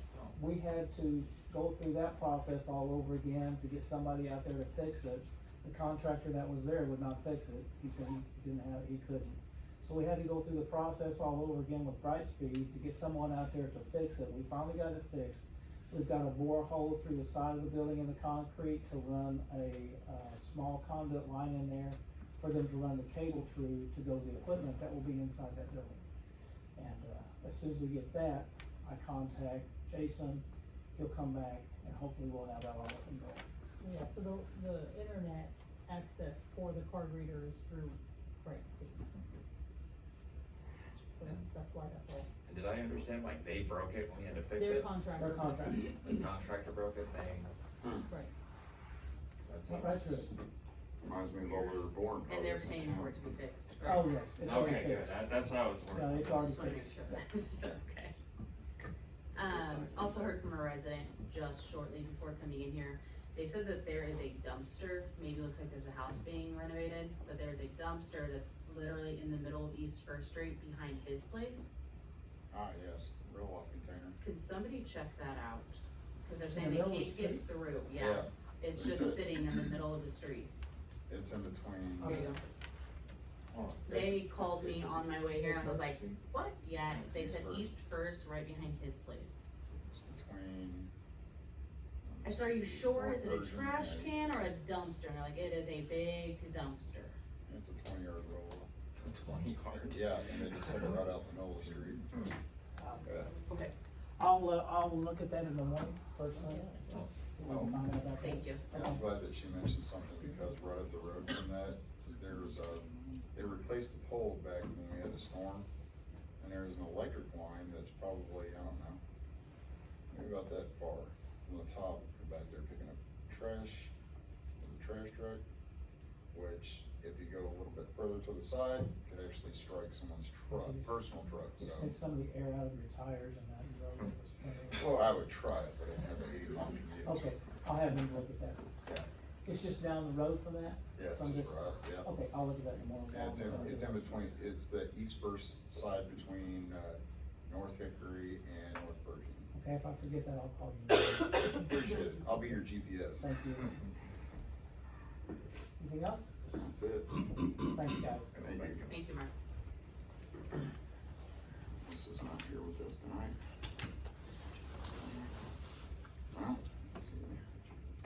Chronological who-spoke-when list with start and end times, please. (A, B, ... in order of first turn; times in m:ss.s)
0:00.3-0:26.0 A
0:26.8-0:30.4 A
0:31.0-0:33.4 A
0:33.8-0:39.0 B
0:41.2-0:42.3 B
0:42.4-0:44.9 C
0:44.6-0:45.8 B
0:45.2-0:46.2 A
0:46.0-0:47.5 C
0:48.0-0:48.3 B
0:49.4-0:50.2 C
0:49.7-0:50.3 A
0:51.0-0:53.3 D
0:52.3-0:54.0 E
0:53.8-0:55.2 A
0:54.4-0:56.9 C
0:55.9-0:56.9 A
0:56.4-0:58.2 E
0:59.3-1:11.7 E
0:59.4-1:00.4 D
1:12.5-1:14.2 D
1:14.2-1:20.5 E
1:16.5-1:17.4 A
1:17.9-1:19.2 D
1:21.1-1:22.3 D
1:22.0-1:22.3 A
1:22.0-1:22.4 E
1:23.5-1:24.0 C
1:23.9-1:29.5 E
1:24.6-1:24.9 C
1:25.5-1:26.2 C
1:26.9-1:27.7 D
1:29.8-1:30.9 D
1:32.0-1:34.2 D
1:32.2-1:37.1 E
1:37.5-1:38.7 D
1:39.0-1:40.0 C
1:39.7-1:42.3 D
1:40.5-1:40.9 C
1:42.8-1:46.7 A
1:47.3-1:49.0 A
1:47.4-1:47.8 D
1:48.2-1:48.6 E
1:48.7-1:55.7 D
1:56.4-1:59.0 D
2:00.1-2:03.9 D
2:04.6-2:05.4 D
2:06.3-2:11.9 D
2:10.5-2:10.9 A
2:11.6-2:15.0 A
2:14.7-2:17.3 D
2:17.0-2:18.7 A
2:19.4-2:24.3 A
2:21.0-2:22.1 D
2:23.1-2:29.5 D
2:29.5-2:31.8 A
2:31.6-2:33.3 D
2:33.2-2:33.7 A
2:35.8-2:36.3 A
2:36.5-2:37.3 D
2:37.6-2:38.4 A
2:38.3-2:38.9 D
2:38.8-2:39.3 E
2:41.8-2:43.4 D
2:45.0-2:45.3 D
2:46.3-2:47.4 D